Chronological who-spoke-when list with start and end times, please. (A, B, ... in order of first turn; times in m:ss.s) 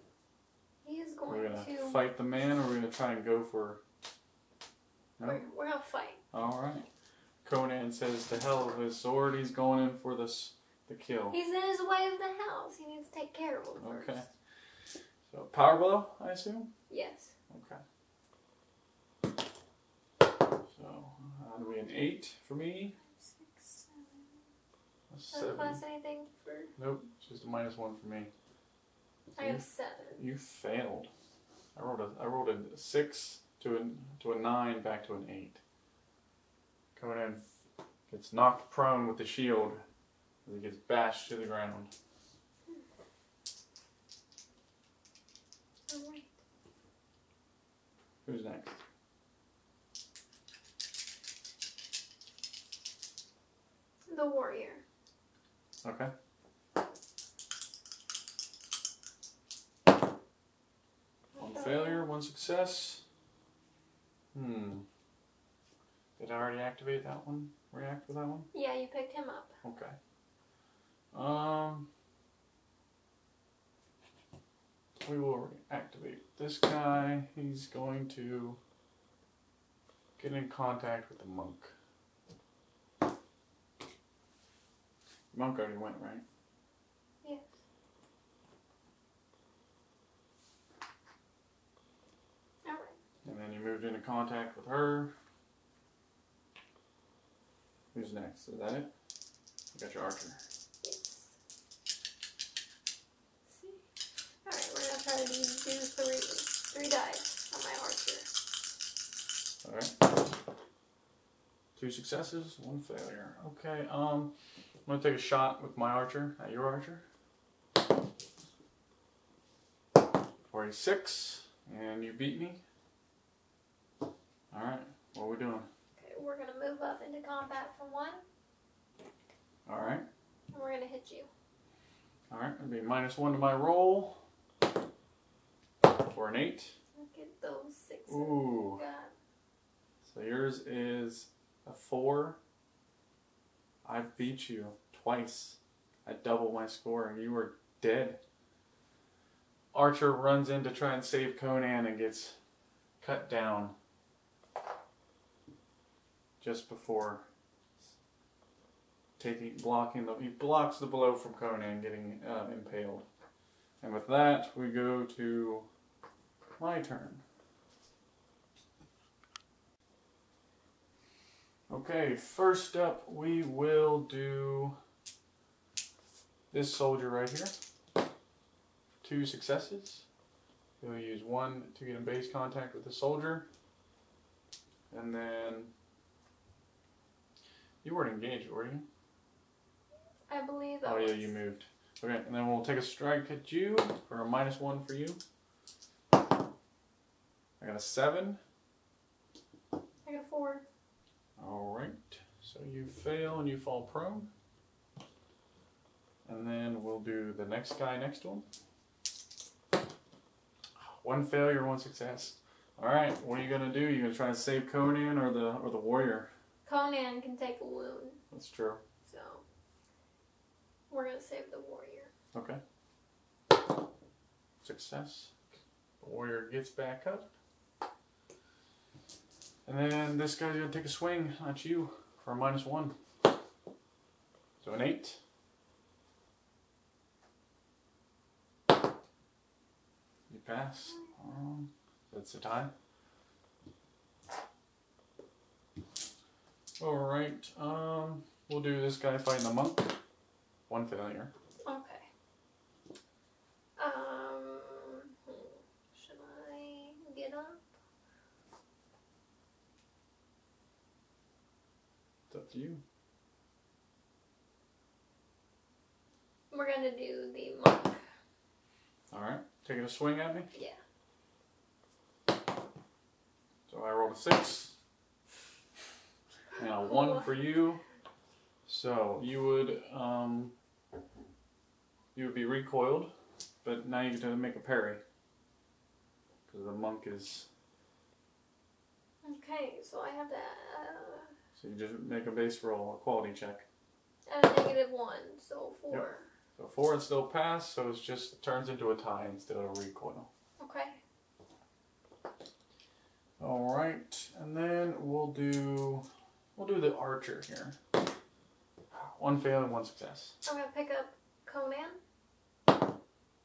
0:00.8-0:02.0 A
0:01.3-0:03.8 B
0:05.2-0:05.5 B
0:05.2-0:06.2 A
0:06.3-0:06.9 B
0:07.4-0:11.4 B
0:11.3-0:14.2 A
0:13.8-0:14.3 B
0:15.3-0:16.7 B
0:16.9-0:17.3 A
0:17.5-0:17.8 B
0:20.7-0:23.0 B
0:23.1-0:24.4 A
0:25.1-0:25.8 B
0:25.3-0:26.7 A
0:26.8-0:28.3 B
0:29.4-0:29.6 B
0:29.4-0:30.2 A
0:30.2-0:31.1 B
0:31.7-0:35.6 B
0:36.9-0:37.4 B
0:38.1-0:39.8 B
0:40.4-0:41.9 B
0:45.9-0:46.3 A
0:48.2-0:48.7 B
0:54.1-0:54.8 A
0:55.8-0:56.1 B
1:01.3-1:02.0 A
1:01.4-1:03.0 B
1:04.3-1:04.9 B
1:06.2-1:08.5 B
1:08.5-1:09.6 A
1:09.6-1:10.0 B
1:11.1-1:11.9 B
1:15.0-1:18.6 B
1:20.2-1:21.7 B
1:25.3-1:26.2 B
1:27.2-1:27.5 A
1:32.6-1:33.0 A
1:33.2-1:35.1 B
1:37.9-1:38.9 B
1:39.7-1:40.4 B
1:40.8-1:41.3 A
1:43.5-1:43.8 A
1:44.4-1:48.3 A
1:49.6-1:50.0 B
1:51.8-1:54.3 B
1:54.8-1:57.0 B
2:00.5-2:02.6 B
2:04.5-2:05.7 B
2:06.0-2:08.2 A
2:09.6-2:10.0 B
2:10.5-2:11.3 A
2:12.3-2:14.2 B
2:15.9-2:16.8 B
2:16.9-2:19.1 A
2:18.1-2:18.8 B
2:20.0-2:22.4 B
2:23.8-2:28.2 B
2:29.7-2:32.4 B
2:33.0-2:33.7 B
2:36.4-2:37.2 B
2:39.2-2:43.1 B
2:43.8-2:45.7 B
2:46.6-2:47.2 B
2:51.7-2:54.8 B
2:56.5-2:57.5 B
2:59.0-3:00.0 B
3:00.8-3:03.5 B
3:04.9-3:05.7 B
3:07.8-3:08.8 B
3:10.3-3:11.3 A
3:10.8-3:15.2 B
3:17.6-3:18.4 B
3:20.0-3:20.6 A
3:21.4-3:24.3 B
3:26.2-3:28.5 B
3:30.8-3:36.3 B
3:36.6-3:38.2 A
3:38.3-3:38.8 B
3:39.0-3:39.4 A
3:40.9-3:42.1 A
3:42.3-3:42.6 B
3:44.6-3:45.4 B
3:46.0-3:47.3 B
3:49.6-3:53.0 B
3:54.6-3:55.2 B
4:00.3-4:02.7 B
4:06.8-4:09.9 B
4:10.7-4:11.3 B
4:11.6-4:12.1 A
4:13.8-4:17.7 A
4:22.3-4:22.8 B
4:26.5-4:28.0 A
4:29.1-4:30.5 B
4:30.5-4:30.8 A
4:33.7-4:34.8 B
4:36.6-4:37.8 B
4:36.8-4:37.4 A
4:38.6-4:40.5 B
4:42.1-4:45.0 B
4:46.5-4:47.5 B
4:49.2-4:51.3 A
4:51.6-4:53.6 B
4:54.3-4:56.2 A
4:55.9-5:00.3 B
5:00.6-5:01.0 A
5:03.4-5:07.8 B
5:08.9-5:10.4 B
5:10.4-5:12.0 A